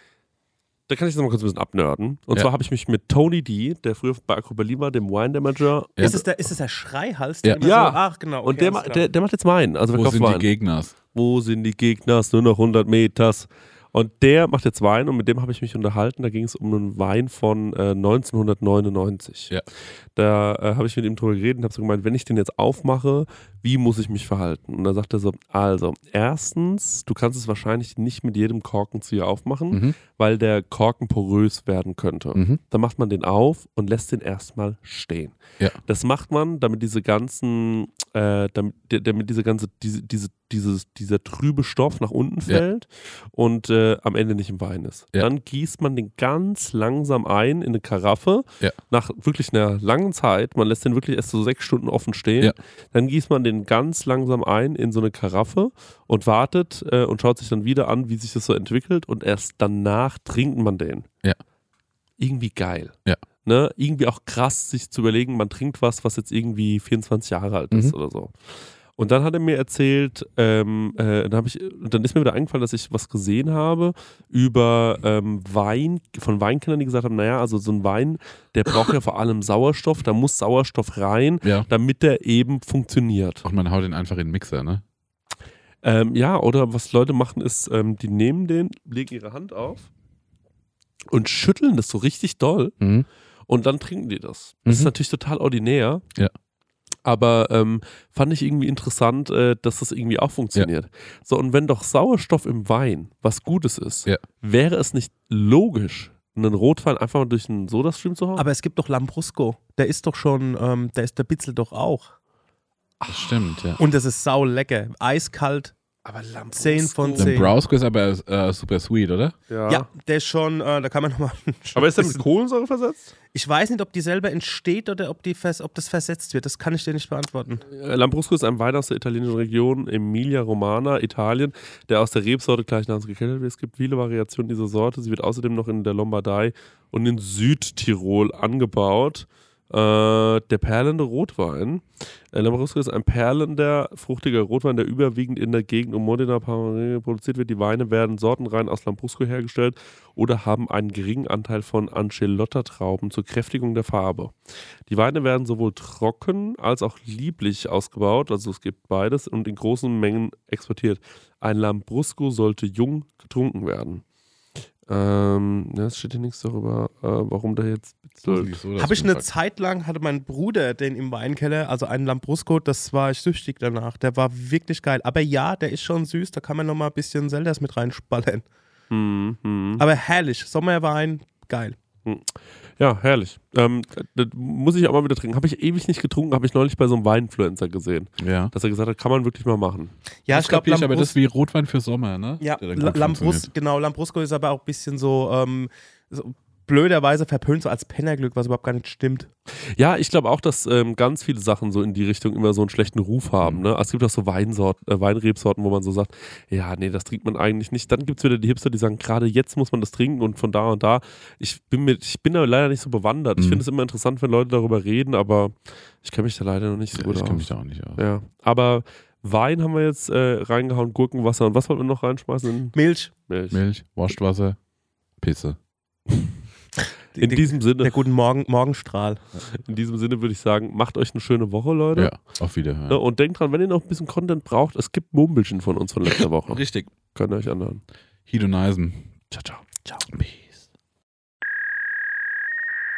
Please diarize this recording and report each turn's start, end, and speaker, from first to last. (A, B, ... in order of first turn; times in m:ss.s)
0:00.9-0:06.2 A
0:06.0-0:09.1 B
0:07.6-0:10.5 A
0:09.9-0:10.9 C
0:11.1-0:19.6 A
0:20.2-1:01.1 A
0:29.7-0:30.0 C
0:32.3-0:32.6 C
1:02.2-1:23.4 A
1:21.4-1:21.7 C
1:23.4-1:24.8 C
1:25.8-1:29.9 A
1:31.1-1:32.8 A
1:32.8-1:33.1 C
1:33.5-1:36.0 A
1:34.6-1:34.9 C
1:37.0-1:48.4 A
1:48.4-1:52.1 B
1:53.0-1:53.3 A
1:53.1-1:53.8 C
1:53.8-1:55.7 B
1:56.0-1:57.5 A
1:56.6-1:57.5 B
1:57.2-1:59.4 C
1:59.5-1:59.9 A
1:59.7-2:02.2 B
2:01.8-2:03.1 A
2:03.3-2:07.6 B
2:07.7-2:34.4 A
2:34.9-2:44.0 A
2:44.9-2:48.6 A
2:48.2-2:49.2 C
2:48.8-2:58.4 B
2:58.9-2:59.8 A
2:59.8-3:01.8 B
3:02.0-3:09.9 A
3:08.2-3:08.5 C
3:10.2-3:11.2 B
3:10.3-3:13.5 C
3:12.4-3:19.3 B
3:19.7-3:42.8 A
3:33.4-3:33.6 C
3:36.9-3:38.0 C
3:42.7-3:43.1 B
3:43.3-3:43.6 A
3:43.5-3:44.6 C
3:45.2-3:45.6 C
3:47.2-3:49.2 B
3:47.2-3:47.9 A
3:49.5-3:52.2 A
3:51.9-3:53.0 C
3:52.9-3:57.8 A
3:56.0-3:56.9 C
3:58.3-3:59.1 C
3:59.3-3:59.9 A
4:00.1-4:00.7 C